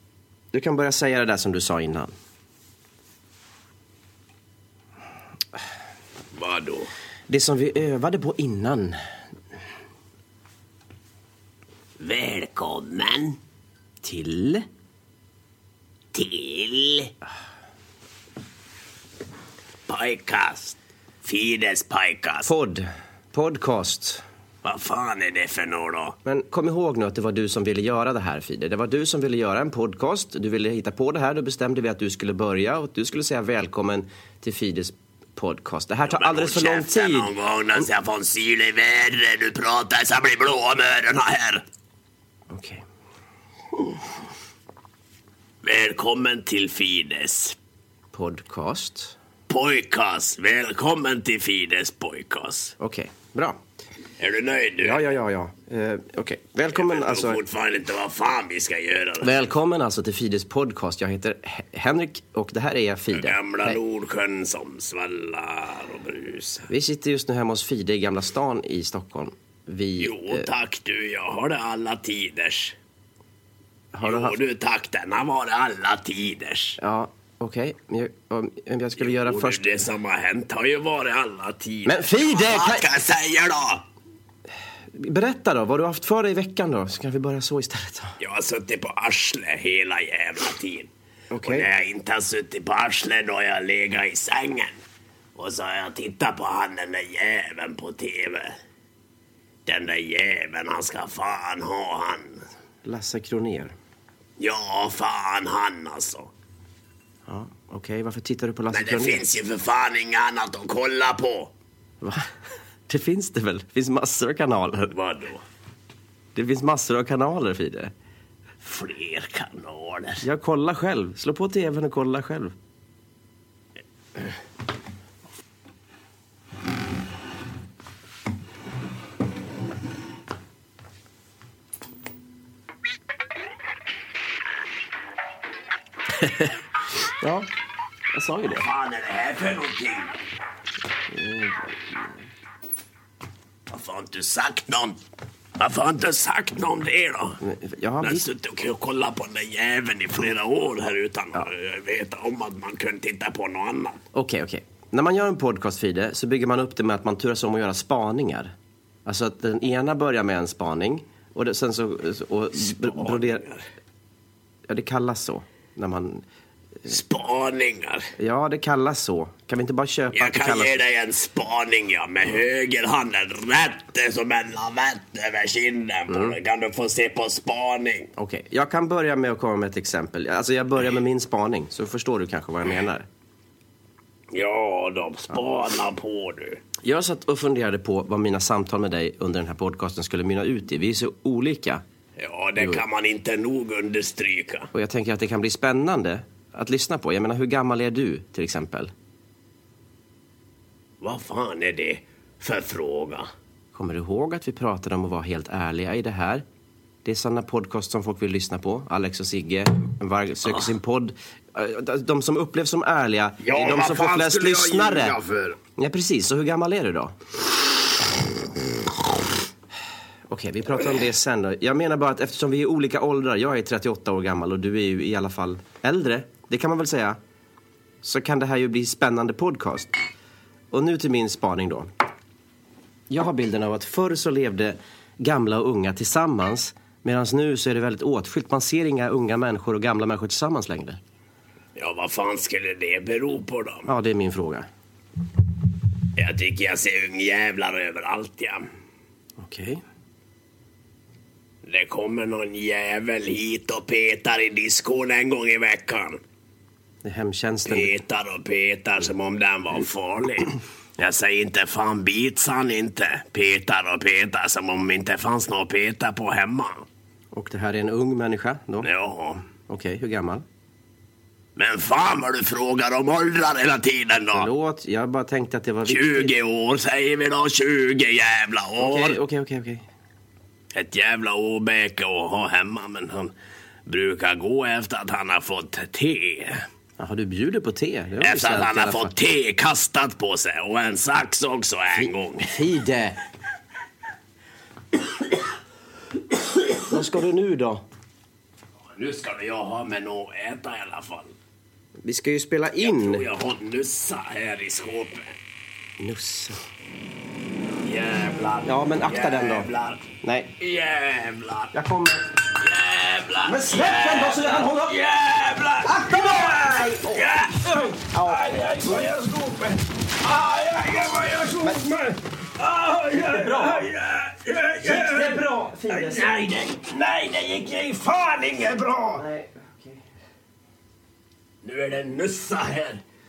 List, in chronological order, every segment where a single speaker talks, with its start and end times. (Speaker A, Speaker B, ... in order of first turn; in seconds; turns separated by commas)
Speaker A: 0.5-2.1, Speaker B: 6.3-6.9, Speaker A: 7.3-9.0, Speaker B: 12.0-13.4, Speaker A: 14.0-14.7, Speaker B: 16.1-17.1, Speaker B: 19.9-22.5, Speaker A: 22.4-24.2, Speaker B: 24.6-26.2, Speaker A: 26.2-37.8, Speaker B: 36.0-41.6, Speaker A: 42.5-42.8, Speaker B: 45.6-47.5, Speaker A: 48.1-49.1, Speaker B: 49.5-52.7, Speaker A: 52.8-53.6, Speaker B: 54.2-55.1, Speaker A: 54.8-57.4, Speaker B: 56.7-59.5, Speaker A: 59.2-63.8, Speaker B: 63.1-66.7, Speaker A: 66.7-70.5, Speaker B: 70.0-72.7, Speaker A: 73.9-74.4, Speaker B: 74.0-76.8, Speaker A: 76.8-79.7, Speaker B: 79.0-83.8, Speaker A: 81.8-82.9, Speaker A: 84.9-88.2, Speaker B: 88.2-90.9, Speaker A: 91.3-91.7, Speaker B: 91.4-94.8, Speaker B: 95.3-98.6, Speaker B: 99.7-102.4, Speaker A: 102.8-103.8, Speaker B: 104.4-106.3, Speaker A: 107.2-109.2, Speaker B: 108.7-111.5, Speaker A: 112.0-112.3, Speaker A: 112.9-114.9, Speaker B: 114.9-115.4, Speaker A: 116.3-117.9, Speaker B: 118.6-120.2, Speaker A: 120.2-122.5, Speaker A: 136.2-136.5, Speaker A: 137.2-137.5, Speaker A: 138.1-138.7, Speaker B: 138.5-140.1, Speaker A: 141.1-142.1, Speaker B: 143.7-145.0, Speaker B: 145.6-147.4, Speaker A: 147.4-148.3, Speaker B: 148.0-154.0, Speaker A: 154.1-158.5, Speaker A: 159.0-163.4, Speaker B: 162.6-163.6, Speaker A: 164.7-166.2, Speaker B: 166.9-168.1, Speaker A: 168.2-170.8, Speaker B: 170.1-178.1, Speaker A: 176.1-176.4, Speaker A: 178.2-183.1, Speaker B: 184.3-186.6, Speaker A: 186.8-191.8, Speaker B: 192.2-194.7, Speaker A: 192.6-192.8, Speaker A: 194.7-198.9, Speaker B: 201.0-203.3, Speaker A: 203.7-206.4, Speaker A: 207.0-215.2, Speaker B: 213.4-215.6, Speaker A: 215.8-217.1, Speaker A: 220.3-227.2, Speaker A: 228.0-229.9, Speaker A: 230.7-231.9, Speaker A: 233.1-241.0, Speaker B: 241.8-243.9, Speaker A: 243.8-244.7, Speaker B: 246.2-248.7, Speaker A: 249.4-249.8, Speaker B: 251.6-256.2, Speaker A: 257.0-257.9, Speaker B: 257.6-266.9, Speaker A: 267.3-268.9, Speaker B: 268.8-269.4, Speaker A: 269.7-270.4, Speaker B: 271.6-274.5, Speaker A: 274.3-276.3, Speaker B: 275.9-279.2, Speaker A: 278.8-279.9, Speaker B: 280.7-283.3, Speaker B: 283.9-286.6, Speaker A: 287.0-289.1, Speaker B: 288.2-292.5, Speaker A: 291.9-293.2, Speaker A: 296.9-297.8, Speaker B: 298.9-301.3, Speaker A: 302.0-303.2, Speaker B: 302.8-305.3, Speaker A: 306.0-306.6, Speaker B: 307.8-310.0, Speaker A: 308.6-309.7, Speaker A: 310.2-310.5, Speaker B: 310.6-311.7, Speaker A: 311.7-312.3, Speaker B: 312.6-321.9, Speaker A: 313.4-315.0, Speaker A: 315.8-319.1, Speaker A: 321.6-322.2, Speaker B: 322.6-329.2, Speaker A: 323.1-323.9, Speaker A: 324.8-326.4, Speaker A: 329.1-330.0, Speaker B: 331.6-333.0